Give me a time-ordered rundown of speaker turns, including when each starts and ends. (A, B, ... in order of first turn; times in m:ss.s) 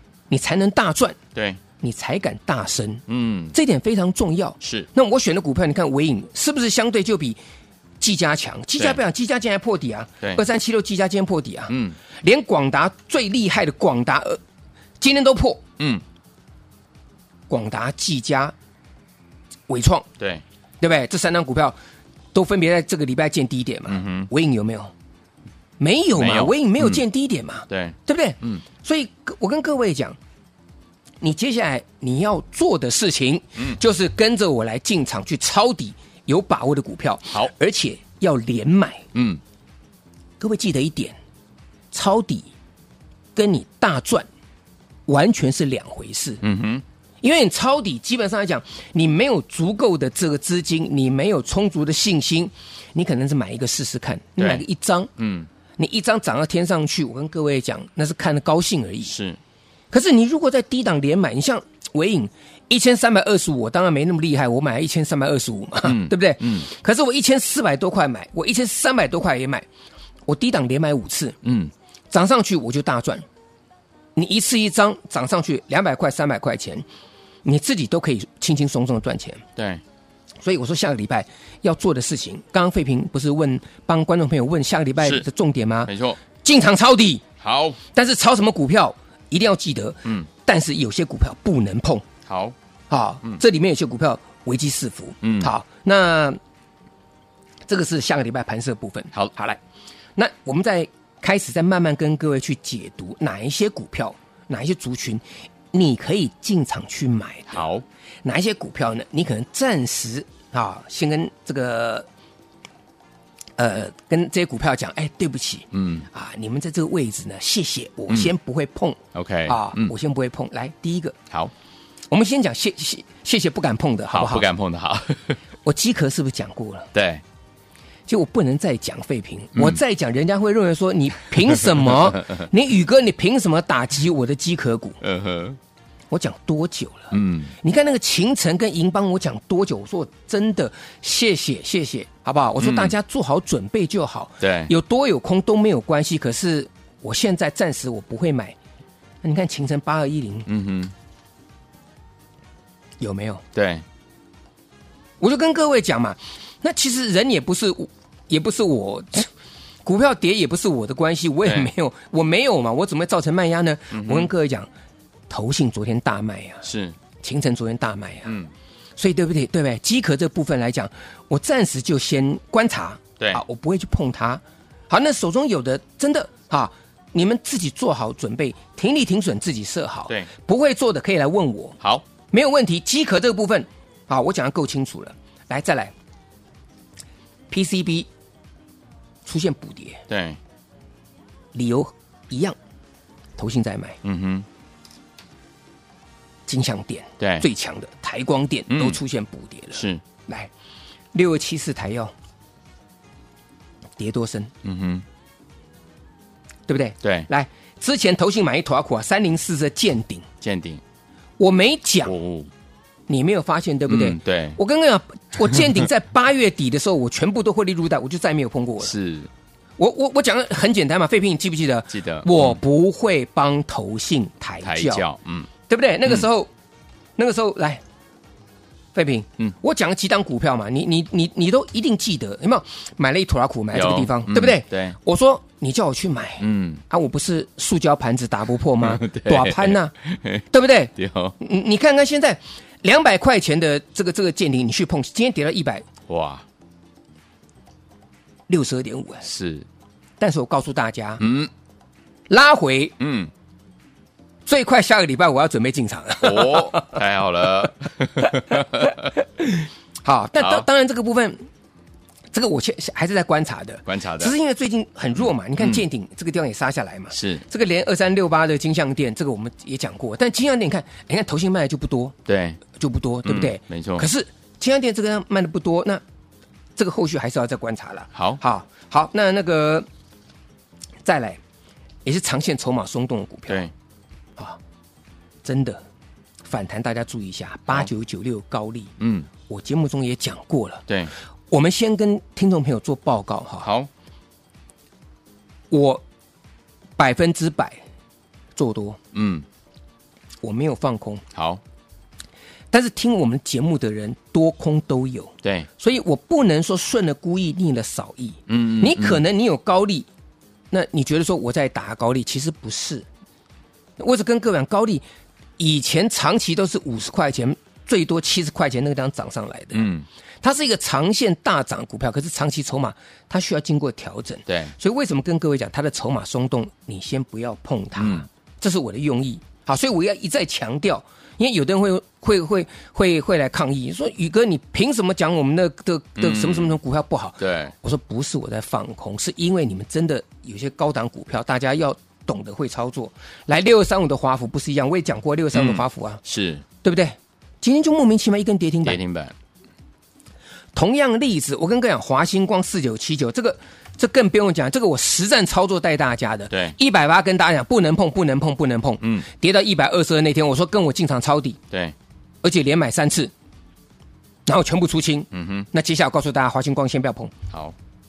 0:00.3-0:01.2 A
0:01.3-0:01.6 B
0:01.8-0:07.4 A
0:03.1-0:03.6 B
0:04.6-0:04.9 B
0:08.0-0:14.4 A
0:11.7-0:12.0 B
0:15.0-0:15.6 A
0:17.5-0:18.5 A
0:19.7-0:20.1 A
0:20.8-0:21.8 A
0:22.3-0:24.9 A
0:23.9-0:24.3 B
0:25.8-0:30.2 A
0:26.2-0:27.0 B
0:27.7-0:28.6 B
0:31.2-0:39.1 A
0:39.1-0:39.4 B
0:40.4-0:41.2 A
0:41.9-0:42.5 A
0:43.3-0:44.3 A
0:45.1-0:46.4 A
0:46.4-0:46.8 B
0:47.2-0:55.1 A
0:54.4-0:54.6 B
0:55.2-0:55.5 B
0:55.8-0:59.1 A
0:59.0-0:59.4 B
0:59.9-1:09.6 A
1:05.8-1:06.7 B
1:10.3-1:11.4 A
1:11.4-1:11.7 B
1:12.1-1:13.2 A
1:14.2-1:16.8 A
1:17.4-1:19.4 A
1:19.6-1:19.8 B
1:20.4-1:27.2 A
1:25.0-1:25.2 B
1:25.8-1:26.2 B
1:27.4-1:27.8 B
1:27.9-1:32.0 A
1:32.3-1:32.5 B
1:32.9-1:36.4 A
1:35.2-1:35.5 B
1:37.7-1:39.6 A
1:40.2-1:47.6 A
1:47.5-1:47.8 B
1:48.2-1:52.0 A
1:53.6-2:01.2 A
1:55.7-1:56.0 B
1:59.1-1:59.9 B
2:02.1-2:04.5 A
2:04.1-2:05.4 B
2:05.6-2:06.9 A
2:06.9-2:07.2 B
2:08.1-2:15.0 A
2:09.5-2:09.8 B
2:11.7-2:12.2 B
2:15.0-2:15.6 B
2:16.1-2:28.6 A
2:17.1-2:17.5 B
2:22.6-2:23.0 B
2:24.4-2:24.7 B
2:29.2-2:30.5 A
2:30.4-2:30.9 B
2:33.0-2:33.4 A
2:33.5-2:33.8 B
2:35.2-2:39.3 A
2:39.8-2:44.7 A
2:41.4-2:41.7 B
2:43.9-2:44.3 B
2:45.3-2:46.6 A
2:46.6-2:47.0 B
2:47.2-2:48.3 A
2:48.2-2:48.5 B
2:49.0-3:01.8 A
3:02.3-3:05.9 A
3:07.5-3:08.1 A
3:09.2-3:10.0 A
3:10.1-3:10.4 B
3:11.5-3:12.6 A
3:13.4-3:14.0 A
3:14.0-3:14.5 B
3:16.5-3:20.5 A
3:17.2-3:17.5 B
3:18.7-3:19.0 B
3:19.7-3:20.0 B
3:21.1-3:22.1 A
3:24.0-3:24.5 A
3:24.6-3:25.0 B
3:26.7-3:30.2 A
3:27.0-3:27.3 B
3:30.4-3:30.8 B
3:31.4-3:32.1 A
3:32.0-3:32.5 B
3:33.1-3:38.9 A
3:33.9-3:34.6 B
3:38.8-3:39.3 B
3:39.8-3:45.0 A
3:41.9-3:42.6 B
3:44.6-3:45.5 B
3:45.7-3:46.5 A
3:47.2-3:47.8 A
3:48.9-3:59.9 A
3:53.7-3:55.0 B
3:56.4-3:56.8 B
3:58.8-4:01.3 B
4:00.5-4:05.8 A
4:06.1-4:06.4 B
4:08.5-4:09.2 A
4:09.2-4:09.7 B
4:10.2-4:11.2 A
4:11.2-4:11.5 B
4:12.3-4:12.9 A
4:13.0-4:13.3 B
4:14.4-4:17.0 A
4:16.2-4:19.1 B
4:18.5-4:21.4 A
4:20.4-4:20.6 B
4:22.3-4:32.2 A
4:23.8-4:24.3 B
4:25.6-4:25.8 B
4:27.1-4:27.4 B
4:32.3-4:32.6 B
4:32.7-4:36.0 A
4:33.2-4:34.1 B
4:36.8-4:39.9 A
4:38.1-4:38.4 B
4:41.0-4:41.4 A
4:42.0-4:43.7 A
4:45.4-4:45.8 A
4:46.4-4:48.9 A
4:49.0-4:49.3 B
4:49.5-4:50.9 A
4:51.5-4:53.7 A
4:53.6-4:53.9 B
4:55.7-4:56.0 A
4:57.0-4:57.8 A
4:58.6-4:59.0 A
4:59.1-4:59.4 B
5:00.4-5:01.2 A
5:01.3-5:01.6 B
5:02.7-5:10.1 A
5:05.4-5:05.7 B
5:08.5-5:09.2 B
5:10.7-5:13.1 A
5:14.0-5:15.0 A
5:15.6-5:19.9 A
5:19.7-5:20.0 B
5:20.4-5:46.2 A
5:24.5-5:24.7 B
5:28.0-5:28.2 B
5:36.2-5:36.7 B
5:37.4-5:37.7 B
5:45.5-5:46.6 B
5:46.8-5:49.0 A
5:48.8-5:49.3 B
5:50.7-6:01.6 A
5:56.5-5:56.8 B
5:59.0-5:59.3 B
6:02.4-6:03.3 A
6:04.4-6:07.3 A
6:05.3-6:05.7 B